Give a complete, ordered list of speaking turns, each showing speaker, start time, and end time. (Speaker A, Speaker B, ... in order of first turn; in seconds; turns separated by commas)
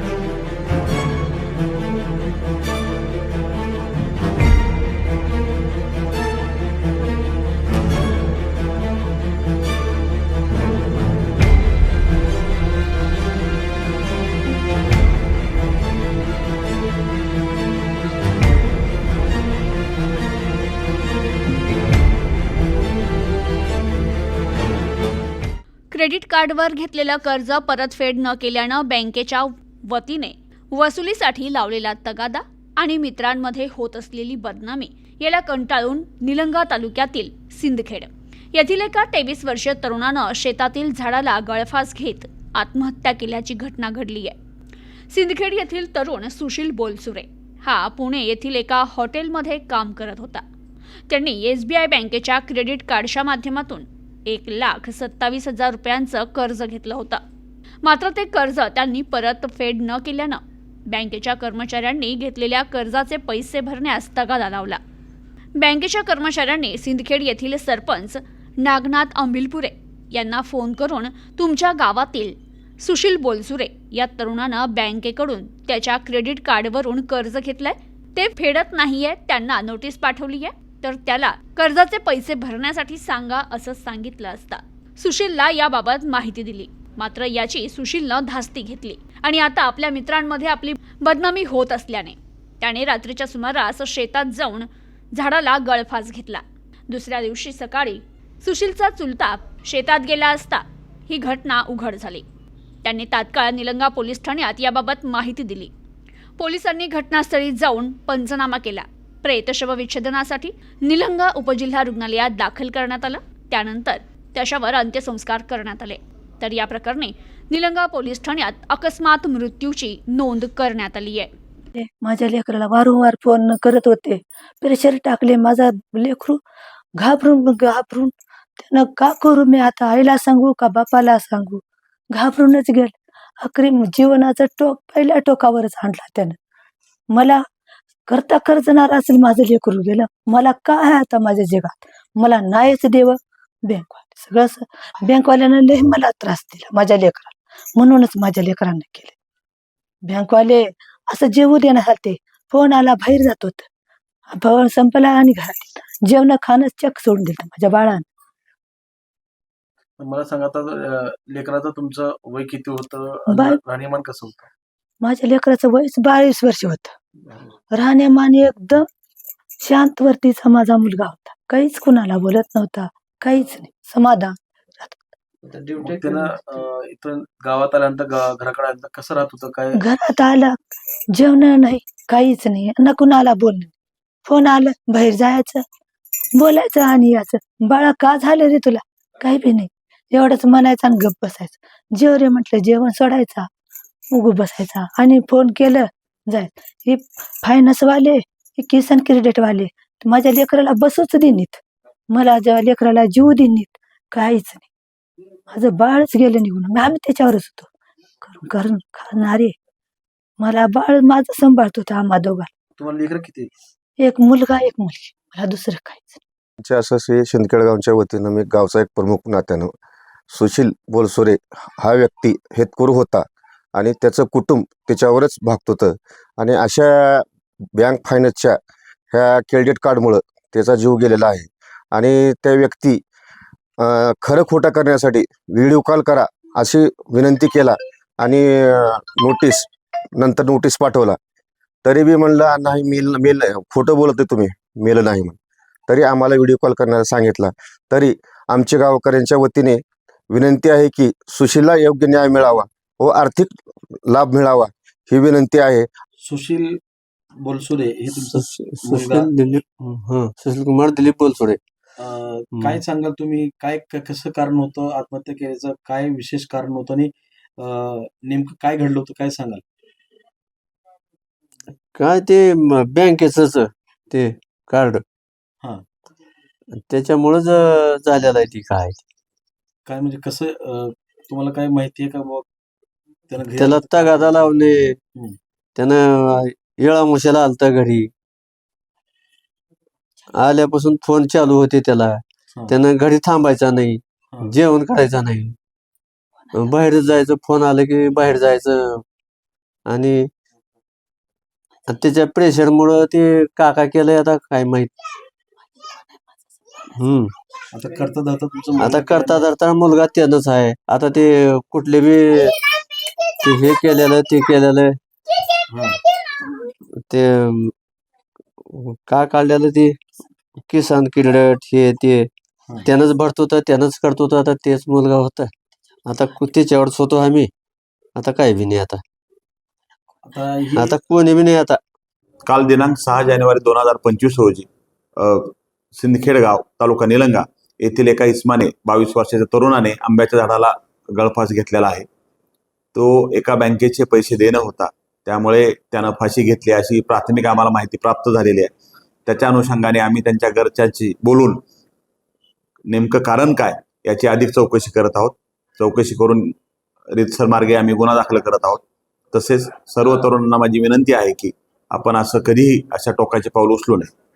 Speaker A: 25.9-44.4, Speaker A: 45.1-50.4, Speaker A: 51.1-57.2, Speaker A: 57.8-64.8, Speaker A: 65.6-102.2, Speaker A: 102.8-105.7, Speaker A: 106.4-121.3, Speaker B: 121.8-126.4, Speaker B: 127.0-131.6, Speaker B: 132.1-136.3, Speaker B: 137.1-137.4, Speaker B: 138.1-149.1, Speaker B: 150.0-153.7, Speaker B: 154.3-158.0, Speaker C: 160.0-164.5, Speaker B: 163.3-163.6, Speaker B: 165.0-166.9, Speaker B: 167.7-168.8, Speaker B: 169.6-175.2, Speaker C: 175.7-179.8, Speaker D: 175.8-176.2, Speaker B: 179.8-180.6, Speaker B: 181.1-183.7, Speaker B: 184.2-185.6, Speaker B: 186.3-193.5, Speaker B: 194.1-204.7, Speaker B: 205.5-207.7, Speaker B: 208.2-209.5, Speaker B: 210.4-212.5, Speaker C: 212.8-213.5, Speaker B: 214.0-216.2, Speaker E: 216.6-219.7, Speaker E: 220.3-228.6, Speaker E: 229.1-233.0, Speaker E: 233.8-241.2, Speaker E: 241.8-245.4, Speaker E: 245.9-255.9, Speaker C: 256.2-256.6, Speaker C: 257.4-259.3, Speaker D: 258.2-261.6, Speaker C: 262.0-267.1, Speaker D: 262.5-262.8, Speaker C: 267.6-269.6, Speaker D: 271.9-275.0, Speaker D: 276.7-279.0, Speaker C: 279.9-282.4, Speaker C: 283.3-284.5, Speaker D: 283.5-285.0, Speaker D: 285.8-288.1, Speaker D: 290.3-295.6, Speaker D: 296.5-299.0, Speaker D: 299.9-300.3, Speaker D: 301.9-304.9, Speaker D: 306.9-307.3, Speaker C: 307.7-309.4, Speaker D: 308.8-315.0, Speaker D: 316.4-317.7, Speaker D: 318.6-320.0, Speaker D: 320.7-322.3, Speaker D: 322.8-325.5, Speaker D: 326.1-327.5, Speaker D: 328.1-329.0, Speaker C: 330.2-331.0, Speaker D: 330.7-331.8, Speaker F: 332.4-334.7, Speaker F: 335.2-342.1, Speaker F: 342.9-348.7, Speaker F: 349.2-351.6, Speaker F: 352.9-356.5, Speaker F: 357.1-358.8, Speaker F: 359.3-364.1